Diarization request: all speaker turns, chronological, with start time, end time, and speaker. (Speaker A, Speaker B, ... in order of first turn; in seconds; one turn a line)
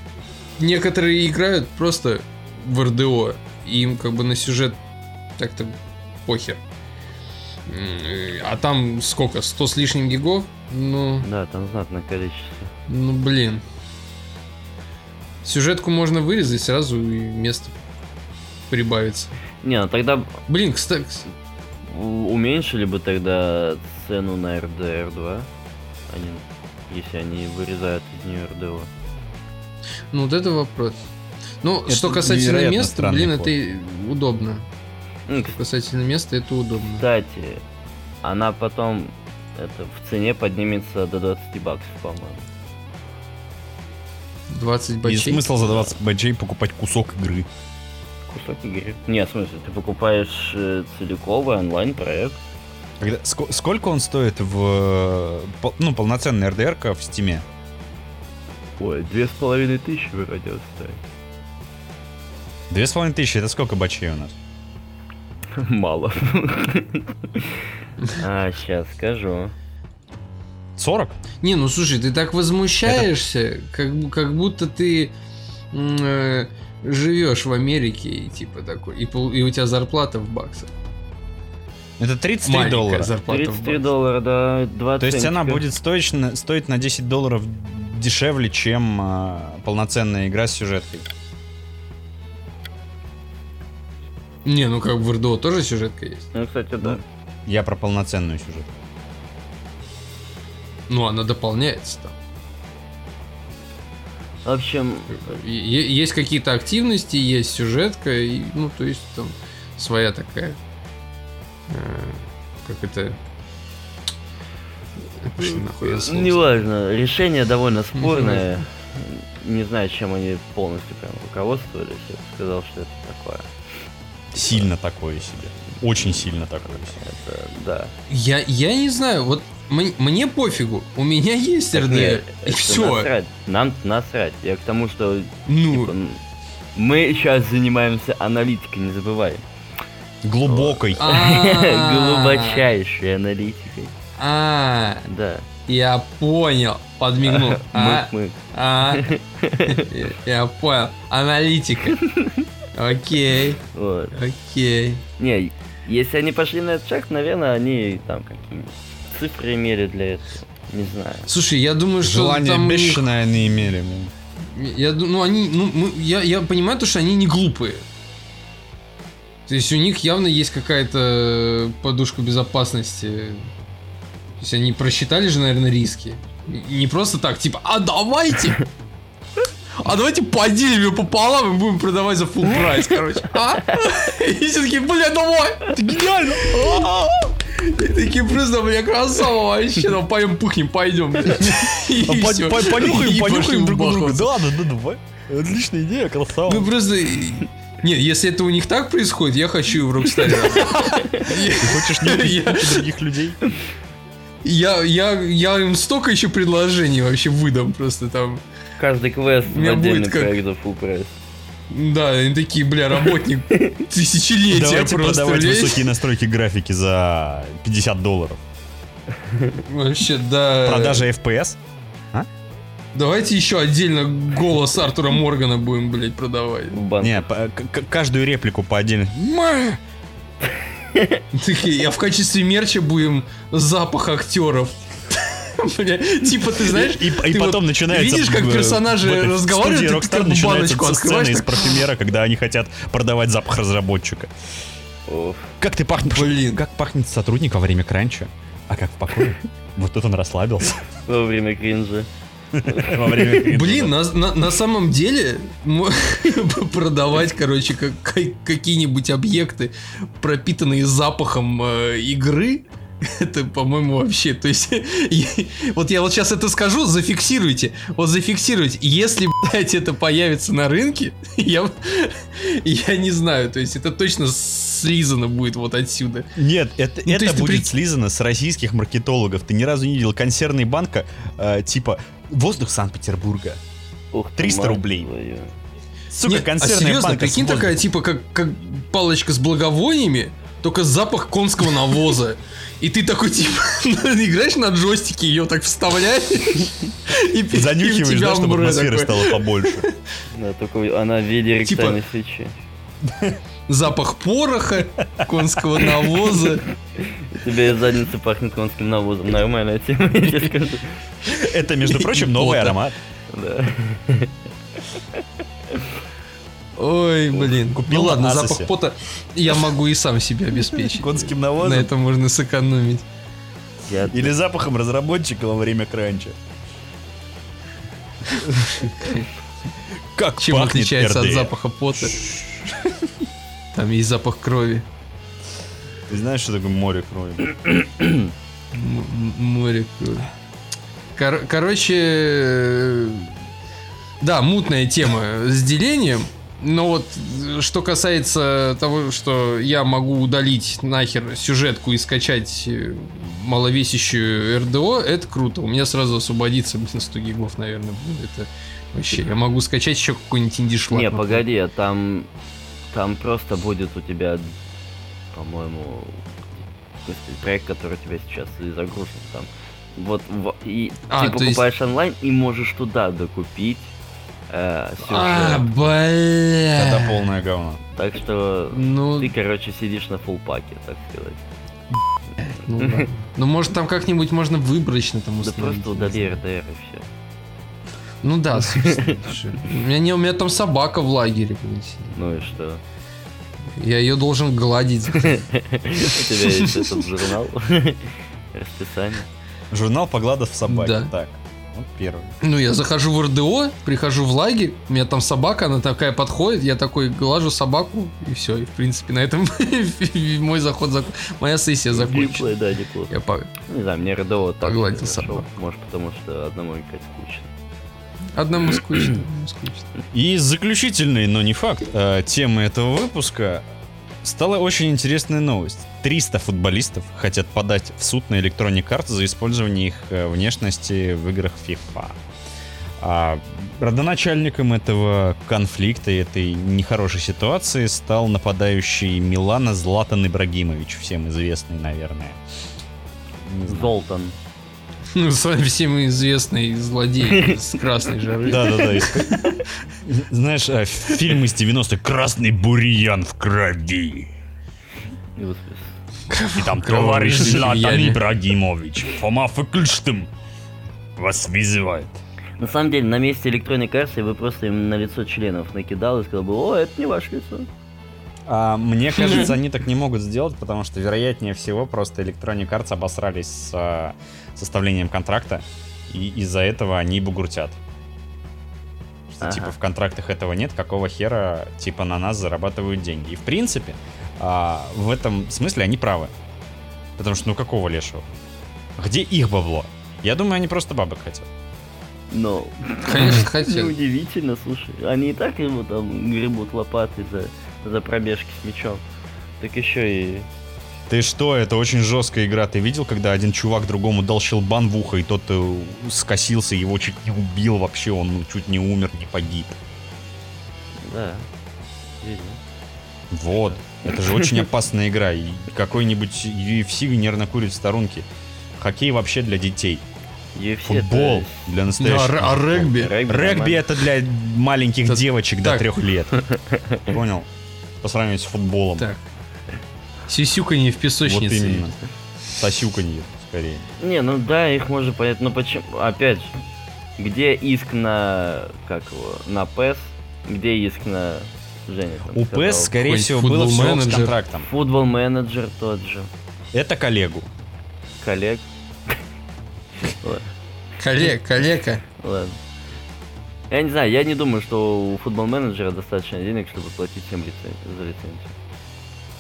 Speaker A: 0.6-4.8
Speaker A: 5.4-6.6
Speaker A: 7.7-11.3
Speaker B: 11.2-12.7
Speaker A: 12.9-13.6
Speaker A: 15.4-17.7
Speaker A: 18.7-19.3
Speaker B: 19.6-20.4
Speaker A: 20.5-21.3
Speaker B: 21.9-25.5
Speaker B: 26.1-28.9
Speaker A: 30.1-31.0
Speaker A: 31.6-34.7
Speaker C: 31.9-33.5
Speaker B: 35.3-35.6
Speaker A: 35.5-37.0
Speaker B: 37.0-37.6
Speaker B: 38.2-42.5
Speaker A: 44.5-45.5
Speaker C: 45.0-47.5
Speaker B: 45.6-46.0
Speaker B: 48.3-52.4
Speaker C: 53.0-57.5
Speaker B: 58.8-61.0
Speaker C: 62.7-64.3
Speaker B: 65.5-69.5
Speaker C: 70.8-71.2
Speaker A: 71.4-75.1
Speaker A: 75.7-80.7
Speaker C: 82.0-83.1
Speaker A: 82.4-83.9
Speaker B: 83.3-85.7
Speaker C: 85.0-91.1
Speaker A: 94.5-96.3
Speaker B: 96.3-97.0
Speaker C: 96.8-98.7
Speaker A: 100.9-102.1
Speaker B: 104.5-105.2
Speaker A: 105.1-110.6
Speaker A: 111.7-113.2
Speaker A: 115.2-116.5
Speaker B: 115.4-123.5
Speaker A: 118.0-118.5
Speaker C: 124.3-127.0
Speaker B: 124.3-124.7
Speaker B: 126.0-127.9
Speaker A: 128.1-133.1
Speaker B: 131.7-136.2
Speaker A: 135.5-135.9
Speaker B: 136.8-139.4
Speaker C: 140.2-141.1
Speaker B: 140.5-143.9
Speaker A: 141.0-142.6
Speaker A: 144.2-145.1
Speaker B: 145.1-145.5
Speaker A: 145.7-149.1
Speaker B: 147.2-149.9
Speaker A: 149.6-152.0
Speaker B: 152.0-152.4
Speaker A: 152.7-153.6
Speaker B: 153.7-154.2
Speaker A: 154.1-155.0
Speaker B: 155.2-161.3
Speaker A: 161.3-163.1
Speaker C: 162.0-164.1
Speaker A: 164.4-167.8
Speaker A: 169.5-173.5
Speaker A: 174.4-178.6
Speaker A: 179.8-185.9
Speaker C: 185.8-187.3
Speaker A: 187.5-194.4
Speaker C: 191.6-196.7
Speaker A: 196.5-202.8
Speaker C: 201.5-203.4
Speaker A: 204.4-208.4
Speaker B: 208.8-211.2
Speaker A: 209.5-210.4
Speaker A: 211.7-215.9
Speaker C: 214.5-218.4
Speaker B: 219.3-219.6
Speaker A: 219.7-221.1
Speaker C: 220.6-221.6
Speaker A: 222.9-226.8
Speaker B: 226.7-227.2
Speaker C: 227.0-229.8
Speaker B: 230.9-231.2
Speaker A: 231.3-241.8
Speaker C: 236.5-244.3
Speaker B: 245.1-245.5
Speaker C: 245.6-250.8
Speaker A: 246.1-246.6
Speaker B: 251.1-252.1
Speaker C: 252.5-253.9
Speaker B: 252.7-253.4
Speaker A: 253.5-276.3
Speaker C: 276.4-283.6
Speaker A: 277.1-277.7
Speaker B: 284.1-285.5
Speaker C: 284.4-285.1
Speaker C: 286.1-287.8
Speaker A: 286.2-299.9
Speaker C: 297.5-299.9
Speaker B: 300.3-302.6
Speaker A: 301.6-302.0
Speaker C: 303.1-303.4
Speaker A: 303.7-306.7
Speaker B: 307.0-311.1
Speaker C: 311.3-312.9
Speaker A: 311.9-312.8
Speaker B: 313.3-314.3
Speaker A: 316.8-323.1
Speaker C: 317.7-318.7
Speaker C: 320.7-321.9
Speaker B: 323.9-324.3
Speaker C: 324.1-326.4
Speaker A: 328.4-329.3
Speaker C: 330.1-333.1
Speaker A: 330.4-332.2
Speaker A: 333.7-334.9
Speaker C: 336.1-337.5
Speaker B: 338.0-338.3
Speaker A: 338.7-340.3
Speaker A: 341.2-343.3
Speaker A: 344.2-361.4
Speaker B: 360.9-362.3
Speaker B: 362.9-364.5
Speaker B: 365.3-366.2
Speaker B: 367.1-373.9
Speaker A: 371.1-371.6
Speaker B: 374.5-375.7
Speaker A: 375.1-377.2
Speaker C: 376.8-377.8
Speaker B: 377.9-381.4
Speaker A: 378.7-379.3
Speaker A: 382.4-386.4
Speaker B: 382.8-383.1
Speaker B: 385.4-387.1
Speaker A: 388.2-392.2
Speaker B: 388.6-389.2
Speaker B: 392.1-392.8
Speaker A: 393.8-395.4
Speaker B: 395.2-399.3
Speaker A: 396.1-397.1
Speaker C: 399.7-402.3
Speaker A: 400.7-401.1
Speaker A: 402.4-412.5
Speaker B: 411.9-417.5
Speaker A: 413.1-413.5
Speaker A: 414.6-415.5
Speaker A: 418.4-419.9
Speaker C: 420.1-423.6
Speaker C: 424.2-432.2
Speaker C: 433.0-442.4
Speaker C: 443.4-443.9
Speaker B: 443.7-444.4
Speaker A: 445.1-449.6
Speaker B: 447.2-447.6
Speaker C: 448.5-449.4
Speaker C: 450.0-454.3
Speaker B: 455.4-455.9
Speaker A: 456.3-458.2
Speaker C: 456.6-460.3
Speaker C: 461.2-462.2
Speaker B: 462.6-467.7
Speaker C: 468.5-477.8
Speaker A: 469.2-469.5
Speaker C: 479.3-486.3
Speaker B: 479.4-479.8
Speaker C: 487.2-488.3
Speaker C: 489.0-491.5
Speaker B: 492.3-499.0
Speaker A: 493.1-493.9
Speaker B: 499.6-500.5
Speaker C: 501.1-509.8
Speaker B: 511.0-511.5
Speaker B: 512.2-512.6
Speaker C: 513.3-518.3
Speaker B: 513.5-514.6
Speaker C: 518.8-520.0
Speaker B: 520.5-521.6
Speaker C: 520.8-526.3
Speaker A: 522.0-523.1
Speaker B: 522.8-523.8
Speaker A: 525.1-525.9
Speaker B: 526.3-527.0
Speaker C: 527.1-527.5
Speaker C: 528.0-529.1
Speaker A: 529.0-529.2
Speaker A: 530.3-531.9
Speaker C: 531.2-532.0
Speaker C: 532.6-533.9
Speaker B: 534.0-536.5
Speaker B: 537.2-543.0
Speaker C: 542.3-544.7
Speaker A: 543.0-544.4
Speaker B: 544.6-546.3
Speaker C: 546.7-547.5
Speaker B: 548.2-549.2
Speaker B: 550.0-550.5
Speaker A: 551.0-552.0
Speaker B: 552.2-552.6
Speaker B: 553.7-558.5